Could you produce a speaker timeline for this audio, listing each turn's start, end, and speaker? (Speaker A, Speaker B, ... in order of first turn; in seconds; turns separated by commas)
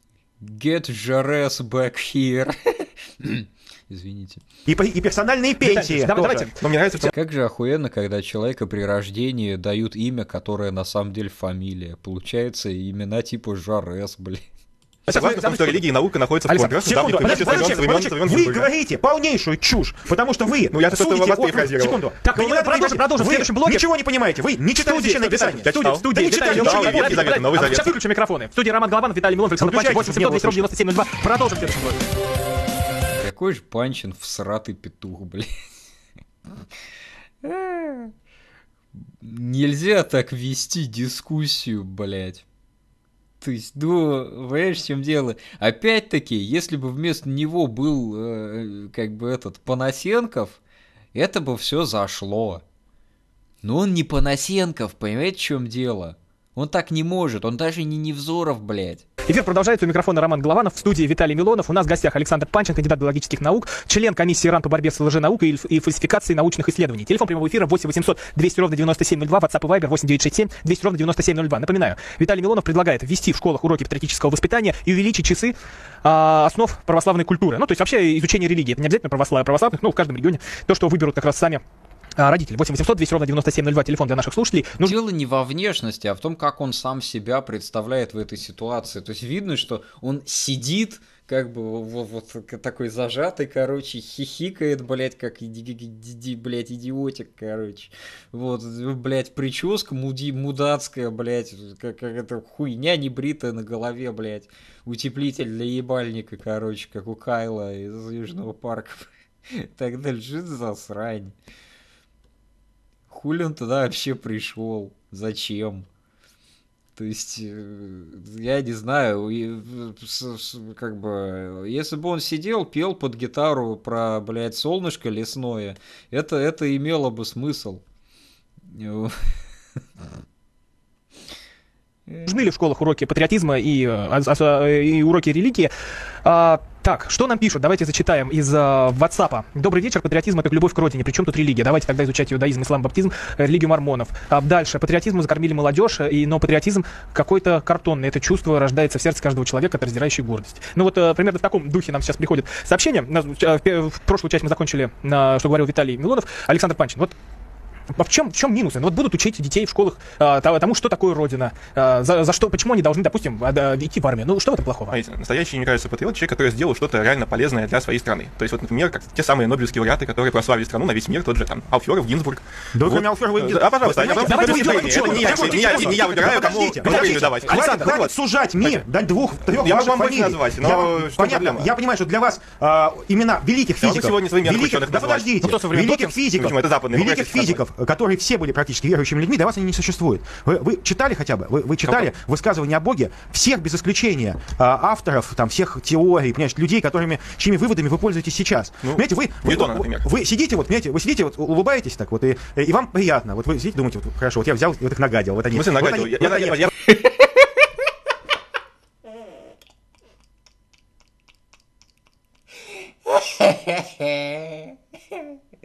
Speaker A: 0.4-4.4, Speaker B: 4.7-6.5, Speaker C: 5.6-7.1, Speaker D: 6.6-7.1, Speaker A: 7.1-14.4, Speaker C: 15.1-15.8, Speaker D: 15.1-18.7, Speaker C: 16.5-17.8, Speaker B: 16.8-27.6, Speaker D: 20.7-22.0, Speaker C: 22.2-23.8, Speaker C: 24.8-32.0, Speaker D: 25.6-27.9, Speaker B: 29.6-30.6, Speaker A: 33.2-35.6, Speaker A: 37.4-38.1, Speaker A: 39.2-42.4, Speaker A: 43.4-50.6, Speaker A: 51.1-52.6, Speaker A: 53.6-59.0, Speaker C: 59.2-81.6, Speaker C: 82.2-84.9, Speaker A: 84.8-111.3, Speaker A: 113.1-115.9, Speaker A: 117.0-127.8, Speaker A: 128.7-129.4, Speaker A: 132.1-132.3, Speaker C: 132.2-135.7, Speaker C: 136.2-157.1, Speaker C: 157.9-164.9, Speaker D: 164.9-178.1, Speaker B: 172.7-206.7, Speaker C: 174.2-176.0, Speaker C: 176.8-178.1, Speaker D: 179.5-181.7, Speaker D: 183.8-185.3, Speaker C: 185.4-186.2, Speaker D: 186.4-187.6, Speaker D: 198.8-200.0, Speaker D: 205.5-206.7, Speaker A: 213.2-214.6